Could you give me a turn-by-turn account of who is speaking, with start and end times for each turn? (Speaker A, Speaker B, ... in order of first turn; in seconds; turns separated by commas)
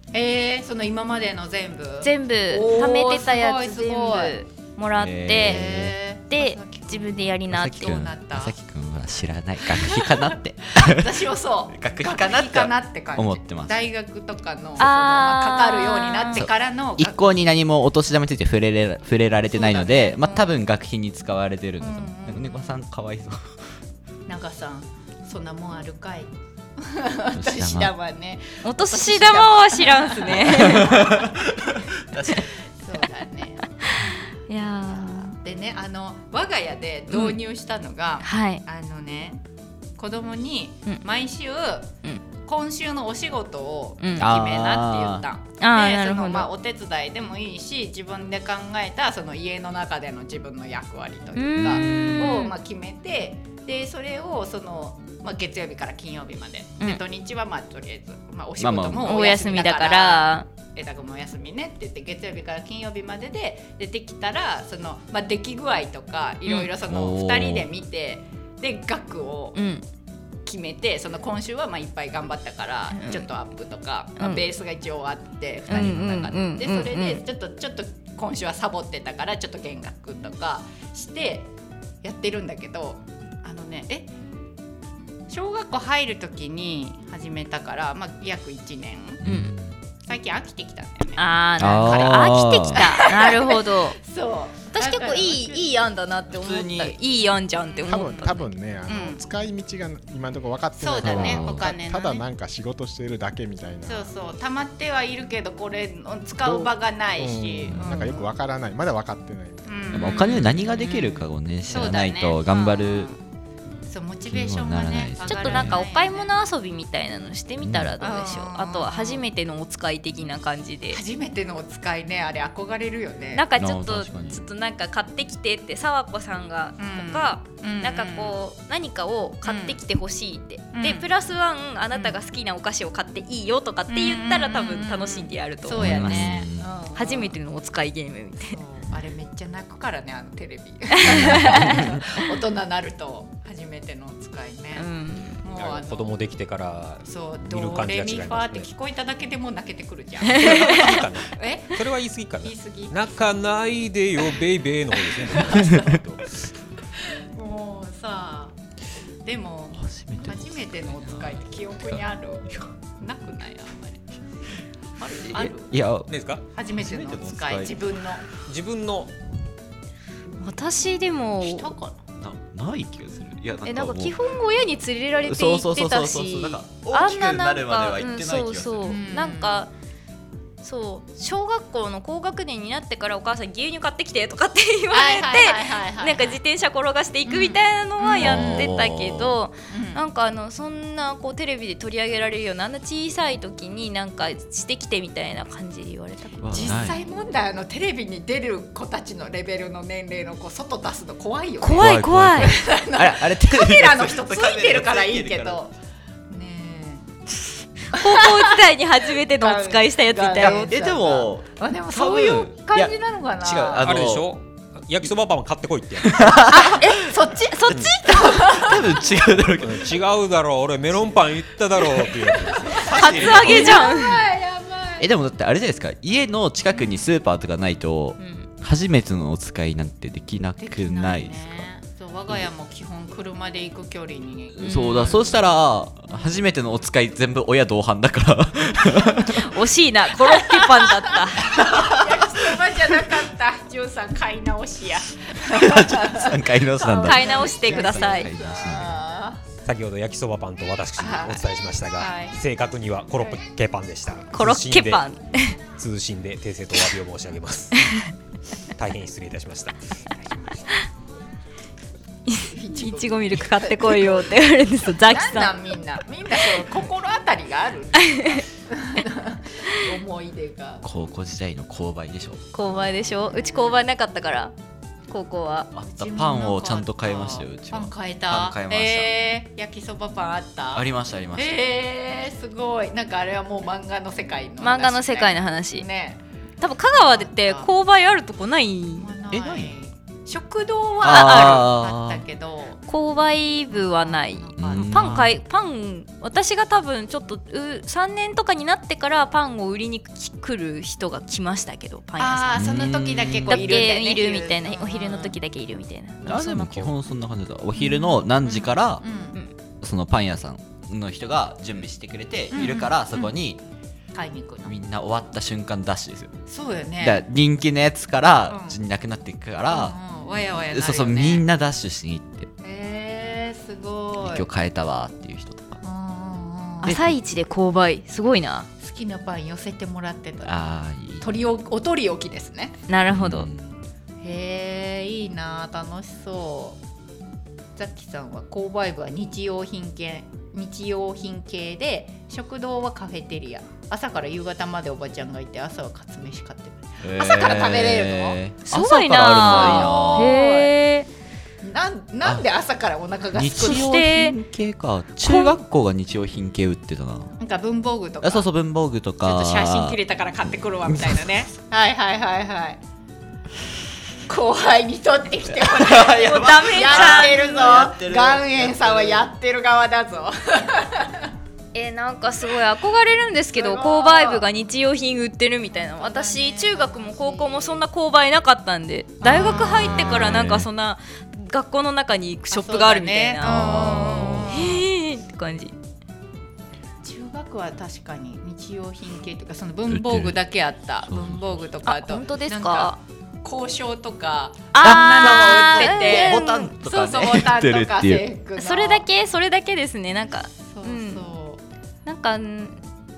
Speaker A: 0.1-4.4, Speaker B: 2.0-5.6, Speaker C: 4.9-6.0, Speaker A: 5.4-8.6, Speaker B: 6.3-8.1, Speaker C: 7.5-13.7, Speaker A: 9.7-17.3, Speaker B: 14.8-16.4, Speaker C: 16.3-23.6, Speaker A: 19.5-20.6, Speaker A: 21.8-22.8, Speaker A: 24.3-31.3, Speaker C: 27.3-27.9, Speaker B: 28.6-31.1, Speaker C: 30.5-32.5, Speaker A: 32.4-33.7, Speaker B: 33.8-35.4, Speaker A: 34.6-39.4, Speaker B: 37.1-37.4, Speaker B: 38.2-38.6, Speaker A: 40.0-69.6, Speaker C: 44.2-45.2, Speaker B: 45.6-46.5, Speaker B: 51.4-52.5, Speaker C: 51.6-52.3, Speaker C: 58.6-59.1, Speaker B: 59.0-60.5, Speaker C: 66.8-67.7, Speaker B: 69.6-69.8, Speaker A: 70.5-81.5, Speaker B: 72.9-73.3, Speaker B: 74.2-74.4, Speaker B: 75.7-77.2, Speaker C: 75.7-76.1, Speaker A: 82.0-84.1, Speaker A: 85.3-89.2, Speaker C: 89.2-89.8, Speaker B: 89.2-89.5, Speaker A: 90.1-95.7, Speaker B: 91.2-94.0, Speaker C: 91.6-93.0, Speaker B: 94.7-98.5, Speaker C: 96.3-97.0, Speaker A: 97.7-99.2, Speaker D: 97.8-104.1, Speaker A: 100.8-102.2, Speaker C: 101.0-101.7, Speaker A: 103.8-108.3, Speaker D: 106.4-109.7, Speaker C: 107.7-108.1, Speaker A: 109.7-113.1, Speaker B: 109.9-111.2, Speaker C: 109.9-113.1, Speaker A: 113.9-116.3, Speaker C: 114.3-115.8, Speaker B: 115.3-121.0, Speaker C: 117.6-117.9, Speaker A: 118.0-119.2, Speaker A: 120.9-123.5, Speaker B: 123.3-138.6, Speaker C: 123.6-124.5, Speaker A: 126.8-128.4, Speaker A: 129.4-129.8, Speaker A: 130.7-131.1, Speaker A: 133.9-137.3, Speaker C: 135.7-136.7, Speaker A: 138.5-144.9, Speaker B: 141.0-141.9, Speaker C: 141.1-142.0, Speaker B: 144.8-145.4, Speaker A: 145.4-146.1, Speaker E: 145.6-148.7, Speaker A: 147.0-151.8, Speaker E: 150.3-156.3, Speaker B: 150.3-151.0, Speaker A: 152.4-153.2, Speaker A: 155.1-156.0, Speaker C: 155.7-156.0, Speaker A: 157.0-158.6, Speaker A: 159.2-164.0, Speaker C: 159.8-161.4, Speaker A: 165.0-165.7, Speaker C: 165.0-166.1, Speaker E: 166.1-166.4, Speaker A: 166.5-168.2, Speaker C: 166.8-167.8, Speaker E: 168.5-169.1, Speaker B: 170.4-171.7, Speaker A: 171.4-172.0, Speaker C: 172.2-174.1, Speaker B: 173.6-179.7, Speaker C: 175.3-179.0, Speaker A: 178.9-179.7, Speaker B: 180.6-197.0, Speaker A: 184.9-186.4, Speaker A: 187.3-188.7, Speaker C: 188.2-189.4, Speaker A: 189.7-190.0, Speaker C: 196.4-197.0, Speaker A: 196.5-205.7, Speaker B: 201.6-202.6, Speaker C: 201.8-205.6, Speaker A: 206.3-207.1, Speaker A: 207.9-208.6, Speaker B: 207.9-210.7, Speaker A: 209.3-214.0, Speaker C: 210.4-214.3, Speaker E: 213.8-216.4, Speaker C: 216.1-216.9, Speaker A: 216.5-219.2, Speaker B: 216.6-218.7, Speaker E: 217.7-218.0, Speaker C: 218.1-220.0, Speaker E: 219.4-223.3, Speaker A: 222.4-225.1, Speaker C: 222.7-223.9, Speaker B: 222.9-224.2, Speaker C: 225.0-231.6, Speaker B: 228.2-228.5, Speaker A: 230.6-235.4, Speaker C: 234.6-239.6, Speaker B: 234.6-235.3, Speaker B: 239.1-241.5, Speaker A: 240.3-249.4, Speaker C: 241.5-242.2, Speaker C: 245.5-249.0, Speaker B: 247.0-248.3, Speaker E: 249.6-255.0, Speaker A: 251.0-251.4, Speaker A: 252.0-252.4, Speaker B: 254.3-255.6, Speaker E: 255.8-257.9, Speaker E: 258.8-259.9, Speaker A: 260.3-260.7, Speaker B: 262.3-265.6, Speaker A: 262.4-264.3, Speaker A: 265.1-270.9, Speaker B: 268.0-268.4, Speaker C: 270.8-272.5, Speaker B: 272.5-274.5, Speaker A: 272.7-273.8, Speaker B: 275.1-275.7, Speaker C: 275.7-279.1, Speaker A: 275.8-286.2, Speaker C: 280.8-281.5, Speaker B: 284.6-285.9, Speaker B: 286.6-289.1, Speaker A: 286.9-287.7, Speaker A: 288.9-292.9, Speaker C: 289.3-289.7, Speaker C: 291.0-292.2, Speaker B: 291.1-291.7, Speaker B: 292.9-302.9, Speaker A: 293.7-295.2, Speaker C: 294.6-295.3, Speaker A: 302.2-305.3, Speaker C: 302.6-303.6, Speaker B: 303.5-307.0, Speaker C: 306.2-309.0, Speaker A: 307.8-309.4, Speaker C: 309.8-313.6, Speaker A: 312.5-313.3, Speaker A: 314.1-314.7, Speaker C: 314.7-316.3, Speaker A: 316.5-317.2, Speaker C: 317.0-319.9, Speaker A: 318.5-318.8, Speaker A: 319.7-321.4, Speaker C: 320.7-322.5, Speaker A: 322.6-324.5, Speaker C: 324.2-325.8, Speaker A: 325.8-327.0, Speaker C: 326.8-327.1, Speaker B: 326.8-328.7, Speaker A: 328.8-330.6, Speaker C: 330.4-331.3, Speaker A: 331.2-332.8, Speaker B: 332.9-333.5, Speaker C: 333.1-333.7, Speaker A: 334.2-336.8, Speaker A: 337.8-348.4, Speaker C: 347.0-350.4, Speaker B: 348.7-351.1, Speaker A: 349.4-350.7, Speaker A: 351.6-354.0, Speaker C: 353.4-357.3, Speaker B: 353.6-354.4, Speaker B: 355.2-355.6, Speaker A: 357.4-358.5, Speaker C: 358.2-360.0, Speaker A: 359.2-362.8, Speaker C: 360.9-361.1, Speaker A: 364.3-371.3, Speaker C: 365.5-369.2, Speaker B: 366.2-367.6, Speaker B: 371.7-385.7, Speaker A: 373.6-374.4, Speaker A: 375.8-377.8, Speaker A: 379.2-380.4, Speaker C: 379.2-380.7, Speaker A: 382.5-384.9, Speaker C: 383.4-384.7, Speaker A: 387.0-399.1, Speaker C: 389.9-390.4, Speaker C: 391.1-391.6, Speaker B: 391.9-393.0, Speaker B: 394.7-396.8, Speaker C: 394.8-398.2, Speaker B: 398.6-401.2, Speaker A: 400.5-401.6, Speaker B: 402.1-402.8